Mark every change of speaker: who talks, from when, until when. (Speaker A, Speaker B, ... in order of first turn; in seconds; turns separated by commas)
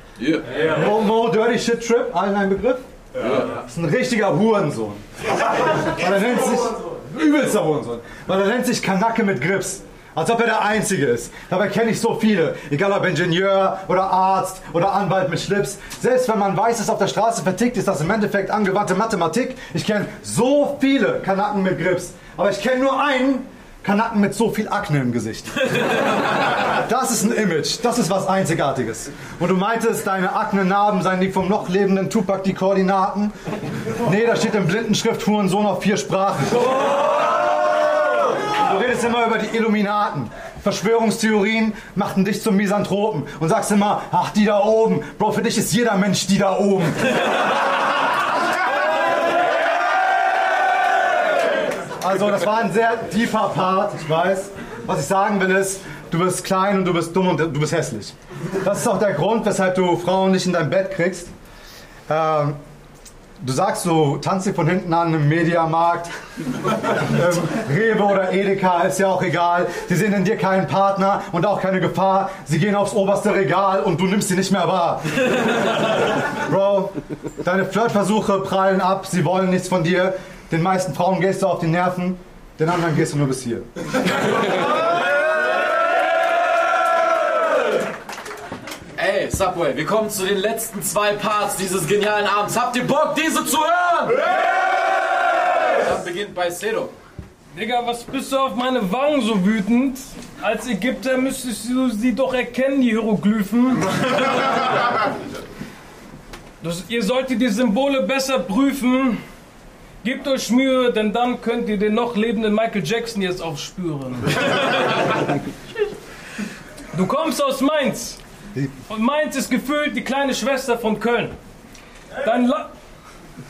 Speaker A: 0.2-0.5, Speaker B: 0.5-2.9, Speaker A: 3.2-3.6, Speaker B: 3.4-33.3, Speaker B: 34.0-47.4, Speaker B: 52.0-61.3, Speaker B: 62.1-62.6, Speaker B: 63.4-66.1, Speaker B: 66.7-84.4, Speaker A: 89.0-94.5, Speaker A: 95.6-97.0, Speaker C: 97.5-104.7, Speaker C: 106.6-109.2, Speaker C: 110.0-115.2, Speaker C: 116.9-118.2, Speaker C: 118.9-121.3, Speaker C: 122.2-122.7